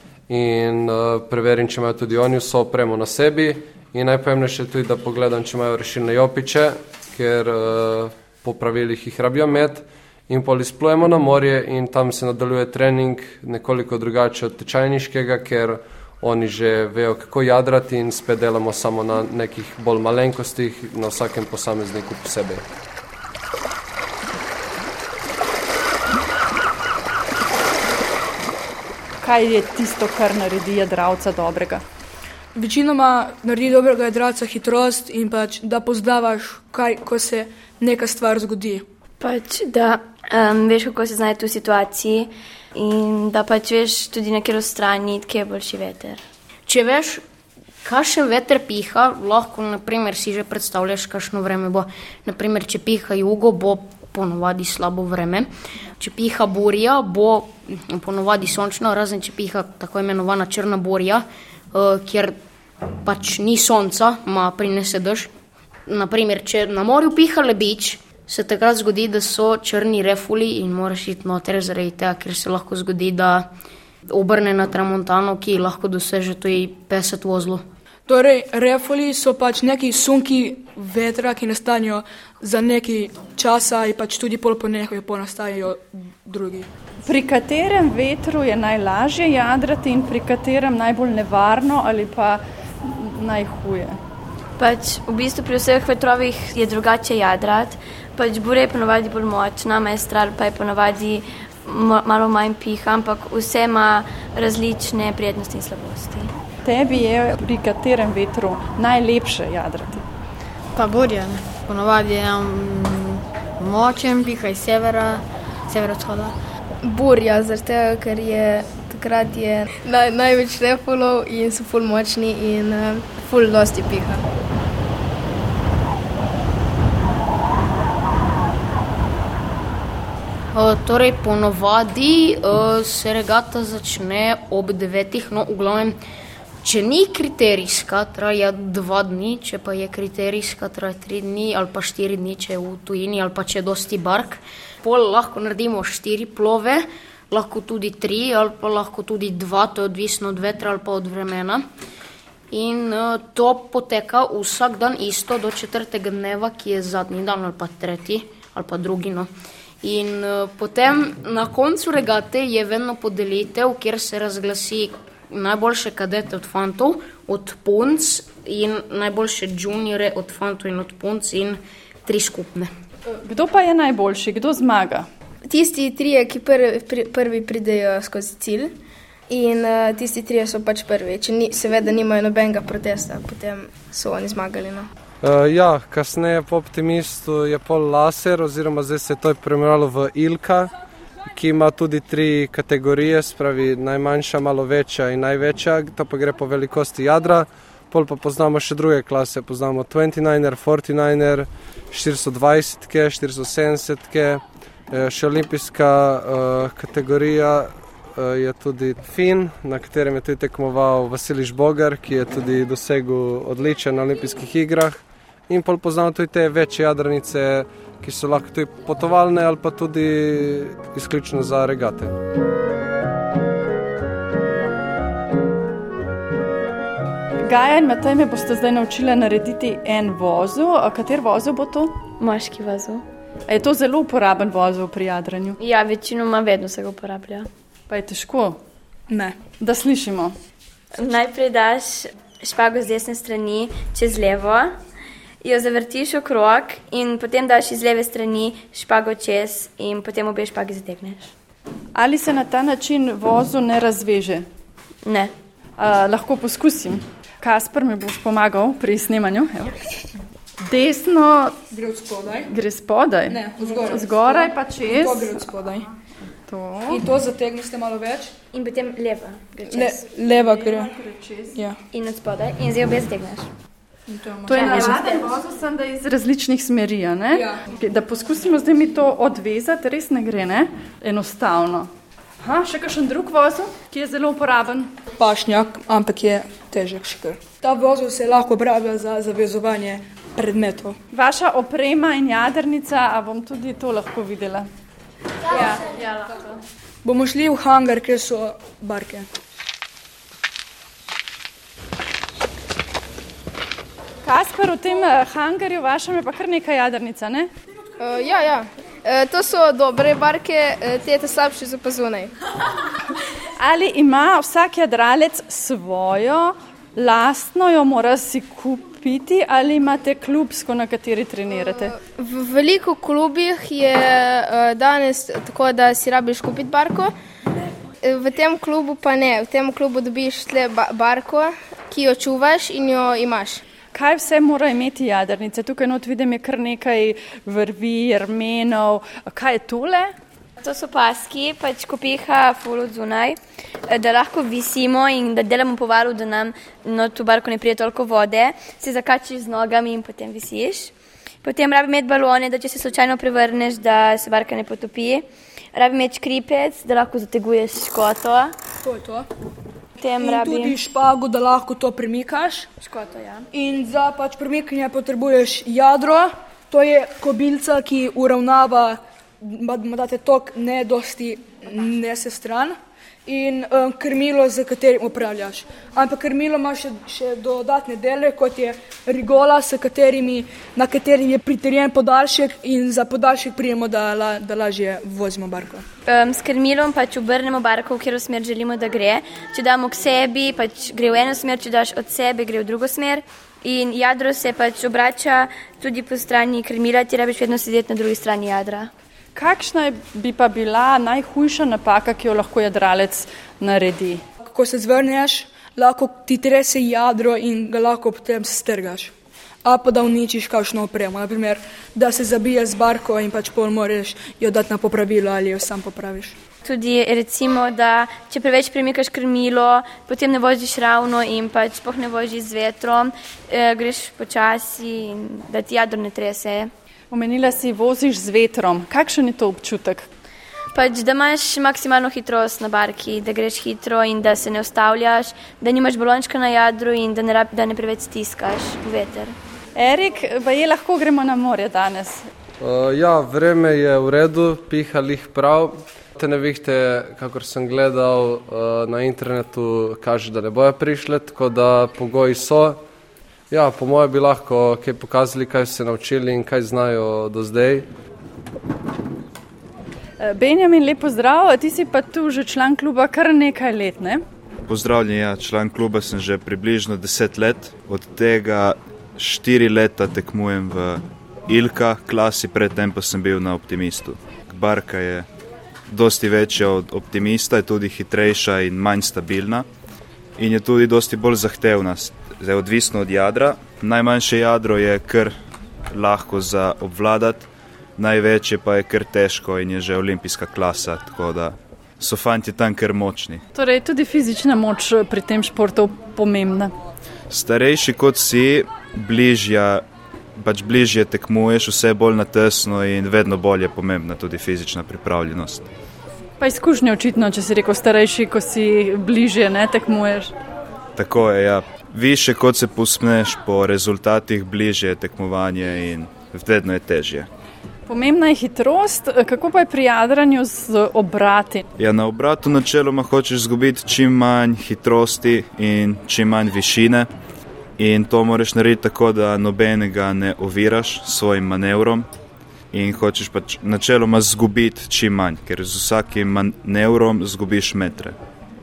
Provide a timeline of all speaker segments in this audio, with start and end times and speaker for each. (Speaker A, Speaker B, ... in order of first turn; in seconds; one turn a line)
Speaker A: 0.3-22.6
Speaker B: 29.2-31.8
Speaker C: 32.5-38.8
Speaker D: 39.2-46.2
Speaker E: 46.7-47.2
Speaker E: 47.8-62.4
Speaker E: 63.0-65.3
Speaker E: 65.9-73.5
Speaker E: 74.1-77.6
Speaker C: 78.1-86.7
Speaker B: 87.0-94.0
Speaker D: 94.6-106.3
Speaker B: 106.6-110.0
Speaker F: 110.7-116.3
Speaker G: 116.8-124.2
Speaker E: 130.5-136.0
Speaker E: 136.6-151.6
Speaker E: 152.5-159.3
Speaker E: 159.8-172.7
Speaker B: 173.2-175.1
Speaker G: 175.5-178.7
Speaker G: 179.3-184.9
Speaker A: 185.2-190.7
Speaker A: 191.3-222.1
Speaker B: 227.4-232.0
Speaker D: 232.2-233.0
Speaker B: 233.5-235.6
Speaker D: 235.6-237.5
Speaker B: 237.9-238.6
Speaker C: 239.1-239.4
Speaker B: 239.6-240.3
Speaker D: 240.9-244.8
Speaker D: 245.4-251.3
Speaker B: 251.9-254.4
Speaker D: 255.0-255.3
Speaker B: 255.8-259.8
Speaker B: 260.6-261.6
Speaker C: 261.7-262.5
Speaker B: 262.5-265.6
Speaker C: 263.3-265.9
Speaker B: 266.4-267.0
Speaker C: 266.9-268.3
Speaker D: 268.5-270.1
Speaker C: 269.7-270.9
Speaker B: 270.2-271.6
Speaker C: 271.5-271.8
Speaker D: 271.9-273.5
Speaker C: 274.1-275.1
Speaker B: 274.4-281.9
Speaker D: 274.5-275.3
Speaker C: 277.3-277.6
Speaker B: 282.4-284.9
Speaker C: 285.2-291.0
Speaker B: 291.1-294.7
Speaker B: 295.5-296.6
Speaker C: 297.0-299.3
Speaker B: 304.2-307.5
Speaker G: 308.0-312.3
Speaker B: 313.6-321.9
Speaker G: 322.0-327.1
Speaker G: 328.0-333.6
Speaker B: 333.9-340.1
Speaker D: 340.6-343.4
Speaker D: 343.9-350.9
Speaker D: 351.4-358.6
Speaker C: 358.8-359.3
Speaker D: 360.0-360.8
Speaker C: 360.2-362.7
Speaker D: 362.8-363.5
Speaker C: 363.5-372.7
Speaker C: 373.2-385.8
Speaker D: 386.1-398.9
Speaker B: 399.3-404.2
Speaker C: 404.4-409.1
Speaker C: 409.6-416.3
Speaker D: 416.6-426.7
Speaker B: 427.1-430.1
Speaker D: 430.7-439.4
Speaker B: 439.8-442.3
Speaker A: 442.6-452.8
Speaker A: 453.5-457.9
Speaker B: 460.2-464.2
Speaker H: 464.7-475.3
Speaker H: 475.9-479.6
Speaker H: 480.4-485.3
Speaker H: 485.9-493.4
Speaker B: 493.5-496.7
Speaker H: 497.3-499.8
Speaker H: 500.4-505.6
Speaker B: 506.4-510.3
Speaker H: 510.9-517.3
Speaker B: 517.9-521.6
Speaker H: 521.8-527.1
Speaker H: 527.8-532.1
Speaker H: 532.7-538.1